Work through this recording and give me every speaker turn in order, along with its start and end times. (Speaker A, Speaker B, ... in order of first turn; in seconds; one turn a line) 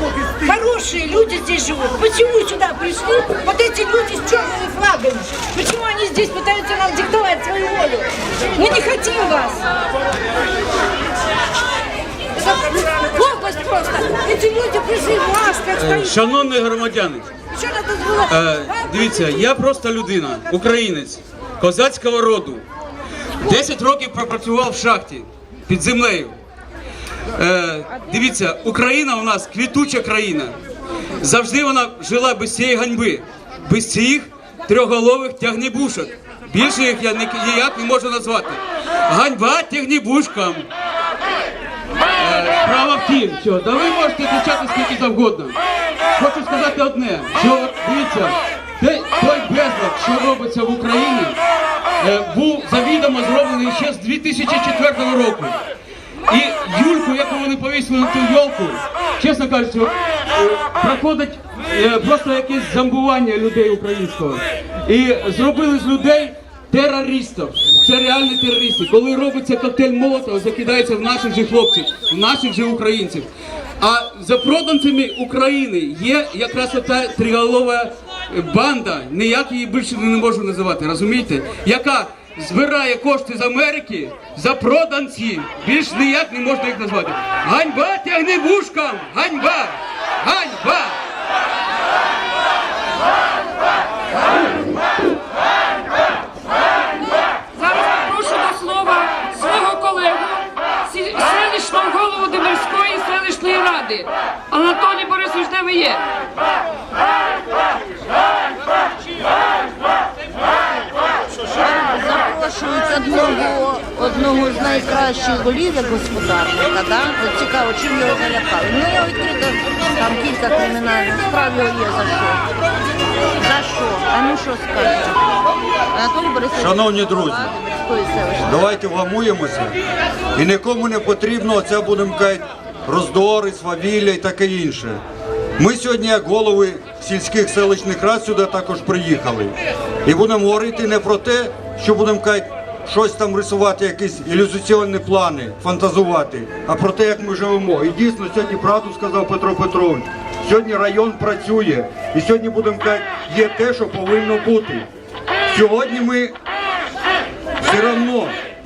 Speaker A: 0.4-9.6
Speaker A: 12.3-16.1
Speaker B: 15.7-17.3
Speaker A: 17.5-19.1
Speaker B: 18.3-22.6
Speaker B: 23.4-26.4
Speaker B: 27.4-30.6
Speaker B: 31.2-40.7
Speaker B: 42.1-45.5
Speaker B: 46.1-51.4
Speaker B: 52.0-55.6
Speaker B: 56.3-73.3
Speaker B: 73.8-91.0
Speaker C: 97.5-106.0
Speaker D: 111.5-122.5
Speaker D: 123.4-125.4
Speaker D: 125.9-128.6
Speaker E: 126.5-127.5
Speaker E: 128.4-129.8
Speaker E: 130.3-135.0
Speaker E: 135.6-154.9
Speaker E: 155.5-156.3
Speaker E: 157.6-158.3